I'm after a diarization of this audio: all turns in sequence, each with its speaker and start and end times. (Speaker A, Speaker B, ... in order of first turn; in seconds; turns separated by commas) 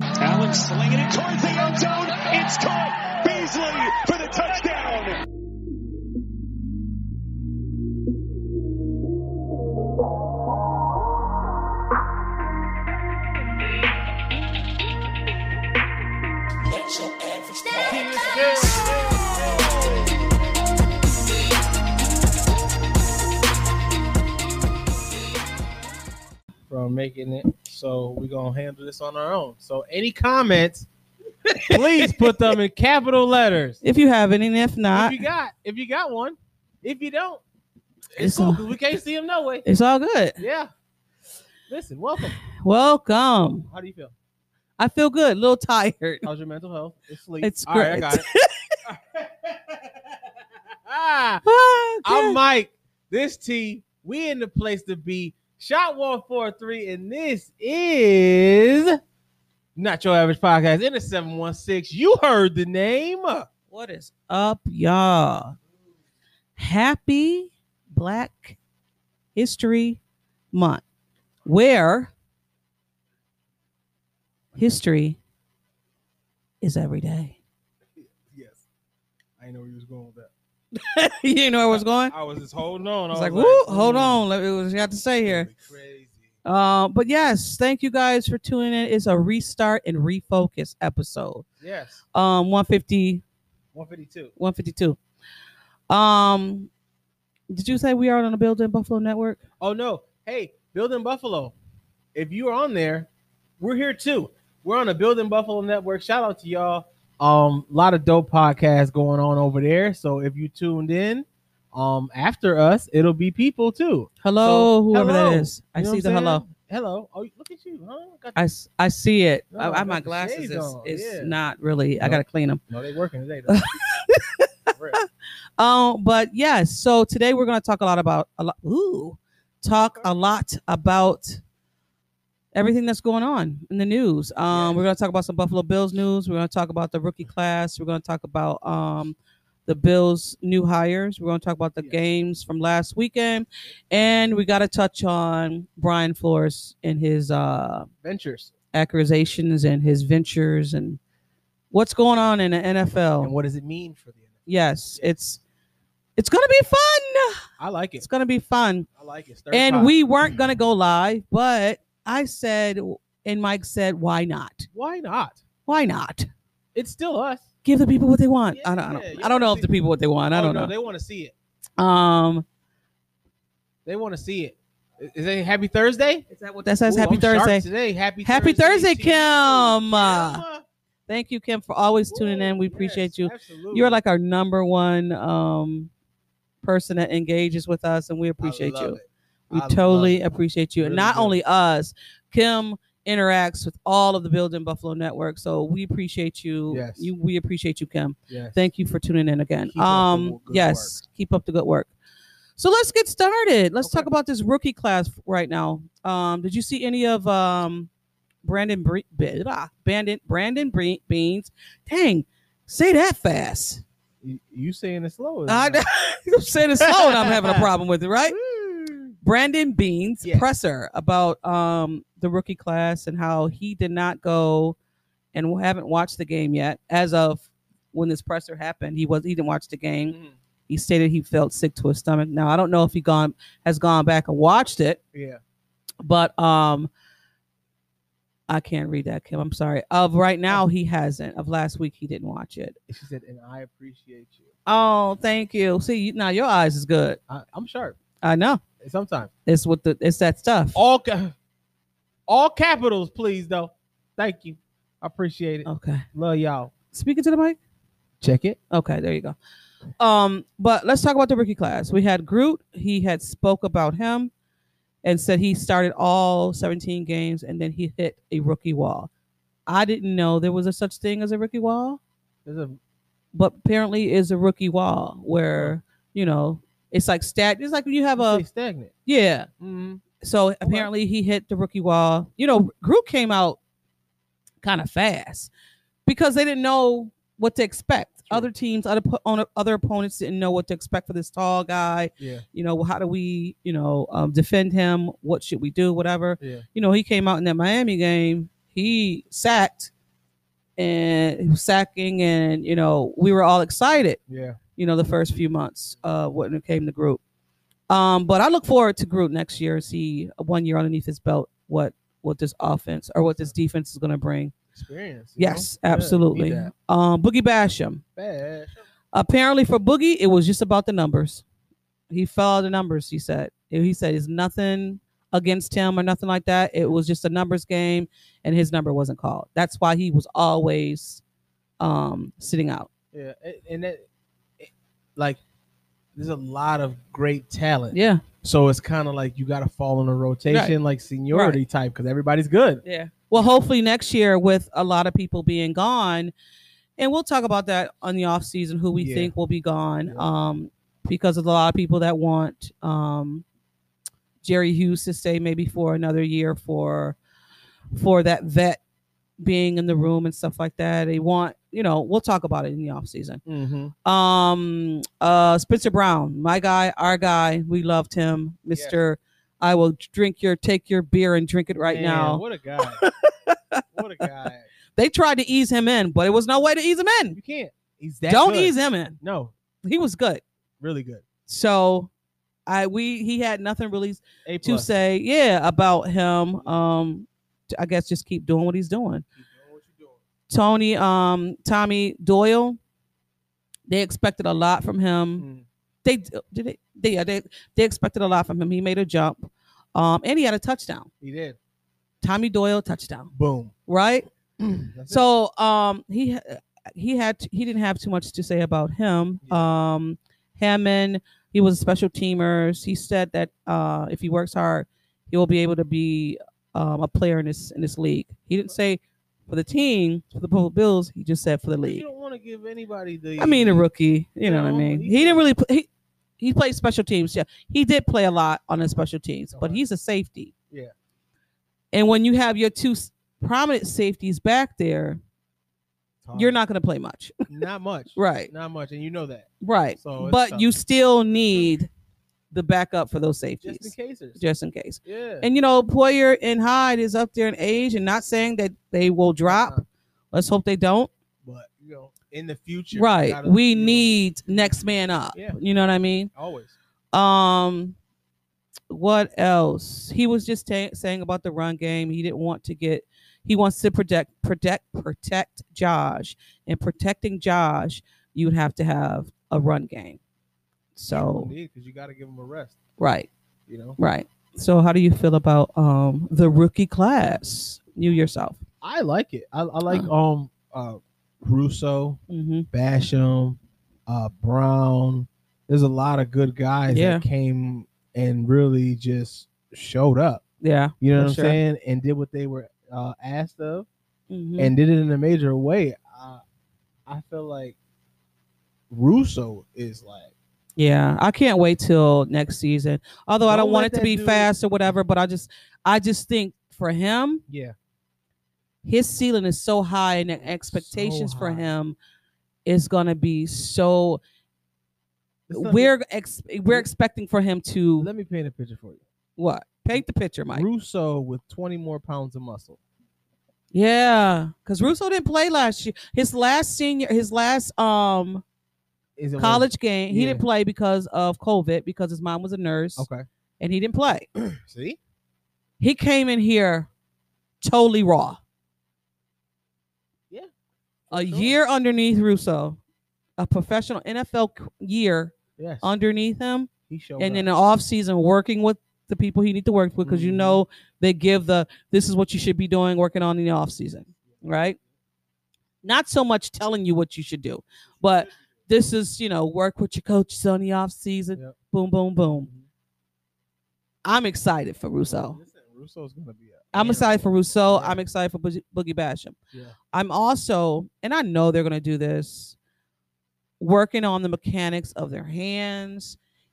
Speaker A: 0.2-5.2, Speaker B: 17.8-19.3, Speaker B: 26.7-30.9, Speaker C: 31.5-32.4, Speaker B: 31.7-33.8, Speaker C: 33.8-35.2, Speaker B: 34.9-37.4, Speaker B: 38.1-39.6, Speaker C: 38.1-38.7, Speaker C: 39.6-40.4, Speaker B: 40.4-40.7, Speaker B: 41.7-42.4, Speaker C: 42.4-43.7, Speaker B: 43.6-44.1, Speaker C: 44.8-46.3, Speaker B: 46.2-48.3, Speaker C: 47.4-48.7, Speaker B: 48.8-49.9, Speaker B: 50.9-51.4, Speaker C: 51.4-52.4, Speaker B: 52.0-59.0, Speaker B: 59.8-63.5, Speaker C: 63.7-65.5, Speaker C: 66.6-68.6, Speaker C: 69.3-70.0, Speaker C: 70.5-70.8, Speaker C: 71.5-72.1, Speaker C: 74.5-75.2, Speaker C: 76.6-77.4, Speaker B: 78.0-78.6, Speaker B: 79.4-80.3, Speaker C: 80.7-82.1, Speaker B: 81.7-84.2, Speaker C: 83.1-85.5, Speaker B: 85.2-86.3, Speaker C: 86.4-91.4, Speaker B: 91.6-92.0, Speaker C: 92.1-93.2, Speaker B: 93.7-94.3, Speaker C: 94.4-95.0, Speaker C: 95.9-96.7, Speaker C: 97.5-99.4, Speaker B: 99.6-101.5, Speaker B: 102.1-118.4, Speaker C: 114.2-116.4, Speaker C: 118.3-122.6, Speaker B: 119.5-121.3, Speaker B: 122.0-123.6, Speaker C: 123.5-124.7, Speaker B: 124.7-125.0, Speaker C: 125.6-131.4, Speaker C: 132.5-139.1, Speaker B: 134.5-134.8, Speaker C: 139.7-147.9, Speaker B: 148.0-148.5, Speaker C: 148.7-151.0, Speaker C: 151.7-153.3, Speaker B: 153.2-154.5, Speaker C: 154.5-155.4, Speaker C: 156.2-157.4, Speaker B: 157.6-158.1, Speaker C: 158.0-158.8, Speaker B: 158.9-160.4, Speaker C: 159.5-164.7, Speaker B: 164.7-165.4, Speaker C: 165.7-166.3, Speaker B: 166.7-167.5, Speaker C: 167.6-170.7, Speaker B: 168.5-169.7, Speaker B: 170.3-171.3, Speaker C: 171.8-172.4, Speaker B: 173.8-176.2, Speaker C: 176.3-177.6, Speaker B: 176.8-180.7, Speaker C: 178.2-180.4, Speaker C: 181.1-185.9, Speaker B: 182.1-184.0, Speaker C: 186.6-189.0, Speaker B: 188.4-190.2, Speaker C: 189.5-201.9, Speaker B: 190.8-191.4, Speaker B: 196.7-197.1, Speaker B: 198.3-198.7, Speaker B: 199.7-201.0, Speaker C: 202.6-207.9, Speaker B: 203.8-204.1, Speaker C: 208.4-213.8, Speaker B: 214.2-215.8, Speaker C: 215.5-218.4, Speaker B: 216.8-217.7, Speaker B: 218.3-219.1, Speaker C: 219.2-224.8, Speaker B: 220.2-220.5, Speaker C: 225.3-230.1, Speaker B: 230.1-230.4, Speaker C: 230.7-235.0, Speaker B: 235.1-235.4, Speaker C: 236.0-236.9, Speaker C: 238.5-242.8, Speaker B: 242.9-244.5, Speaker C: 244.7-247.2, Speaker B: 247.3-248.0, Speaker C: 248.2-248.6, Speaker B: 248.8-249.3, Speaker C: 249.4-250.8, Speaker B: 250.7-251.3, Speaker B: 252.3-256.7, Speaker C: 255.6-256.0, Speaker C: 256.9-257.6, Speaker B: 258.2-258.6, Speaker C: 258.7-259.4, Speaker C: 260.0-264.3, Speaker C: 265.0-269.1, Speaker C: 269.7-272.0, Speaker B: 272.4-272.8, Speaker C: 273.3-278.4, Speaker B: 278.2-278.9, Speaker C: 279.1-279.5, Speaker B: 279.6-280.0, Speaker C: 280.2-283.6, Speaker B: 280.6-280.9, Speaker C: 284.6-285.5, Speaker C: 286.1-299.9, Speaker B: 292.2-292.4, Speaker B: 296.4-296.6, Speaker C: 300.8-304.2, Speaker B: 304.3-304.6, Speaker C: 304.8-307.2, Speaker C: 307.9-314.5, Speaker B: 314.7-316.7, Speaker C: 315.4-318.0, Speaker B: 318.1-318.8, Speaker C: 319.1-321.4, Speaker C: 322.1-331.2, Speaker C: 331.8-332.9, Speaker B: 333.1-334.1, Speaker B: 334.6-335.4, Speaker B: 336.1-342.8, Speaker C: 337.9-338.2, Speaker C: 340.5-340.7, Speaker C: 341.3-341.6, Speaker C: 342.8-346.3, Speaker C: 347.0-353.4, Speaker B: 349.0-349.3, Speaker C: 354.4-357.1, Speaker C: 357.9-358.8, Speaker C: 359.4-363.4, Speaker B: 363.4-363.9, Speaker C: 364.0-373.8, Speaker B: 368.7-369.0, Speaker B: 371.9-373.0, Speaker B: 373.9-374.7, Speaker C: 374.9-377.4, Speaker B: 377.3-379.5, Speaker C: 378.3-379.2, Speaker C: 379.8-380.4, Speaker B: 380.8-381.2, Speaker C: 381.5-382.1, Speaker C: 382.7-389.2, Speaker B: 384.4-384.9, Speaker B: 389.3-390.2, Speaker C: 390.5-392.8, Speaker C: 393.9-395.4, Speaker B: 395.4-395.6, Speaker C: 396.0-401.1, Speaker B: 401.2-401.6, Speaker C: 402.2-403.3, Speaker B: 403.3-403.7, Speaker C: 403.9-404.3, Speaker B: 404.6-405.3, Speaker C: 405.1-422.0, Speaker B: 409.4-409.7, Speaker B: 421.8-423.9, Speaker C: 423.4-425.9, Speaker B: 424.4-425.4, Speaker C: 426.4-430.5, Speaker B: 429.5-429.8, Speaker C: 431.9-435.2, Speaker B: 436.2-436.6, Speaker C: 436.3-437.5, Speaker B: 437.5-440.7, Speaker C: 438.1-438.5, Speaker C: 439.6-441.9, Speaker C: 442.5-451.1, Speaker B: 443.6-444.4, Speaker B: 445.0-445.5, Speaker B: 449.4-449.8, Speaker B: 451.4-454.7, Speaker C: 452.9-456.3, Speaker B: 455.3-455.6, Speaker B: 456.3-456.7, Speaker C: 457.1-457.9, Speaker C: 458.9-470.2, Speaker C: 470.9-471.5, Speaker B: 471.1-472.8, Speaker C: 473.0-473.3, Speaker B: 473.7-474.0, Speaker C: 474.0-478.6, Speaker B: 478.8-482.2, Speaker C: 482.3-482.7, Speaker B: 482.7-490.4, Speaker C: 486.9-487.2, Speaker C: 490.6-491.6, Speaker B: 491.0-493.9, Speaker C: 494.3-494.7, Speaker B: 494.6-496.4, Speaker B: 497.1-497.8, Speaker B: 498.9-500.3, Speaker C: 500.8-507.4, Speaker B: 503.5-504.5, Speaker B: 507.5-507.7, Speaker C: 508.8-511.9, Speaker B: 510.4-511.7, Speaker C: 512.6-514.2, Speaker B: 515.5-515.9, Speaker C: 515.5-518.1, Speaker B: 518.0-519.0, Speaker C: 519.4-520.6, Speaker B: 519.9-522.8, Speaker C: 523.7-528.4, Speaker B: 529.2-530.4, Speaker C: 529.4-533.1, Speaker B: 533.0-533.2, Speaker C: 533.6-534.3, Speaker B: 534.3-535.0, Speaker C: 535.8-536.9, Speaker C: 537.6-538.4, Speaker B: 541.1-541.5, Speaker C: 541.1-542.8, Speaker C: 543.4-554.8, Speaker B: 545.6-545.9, Speaker B: 546.9-547.5, Speaker B: 550.0-550.6, Speaker B: 554.2-554.8, Speaker C: 555.8-562.5, Speaker B: 558.0-558.5, Speaker B: 562.2-562.7, Speaker C: 564.0-565.4, Speaker B: 565.0-568.0, Speaker C: 566.7-569.4, Speaker C: 569.9-572.5, Speaker C: 573.6-576.2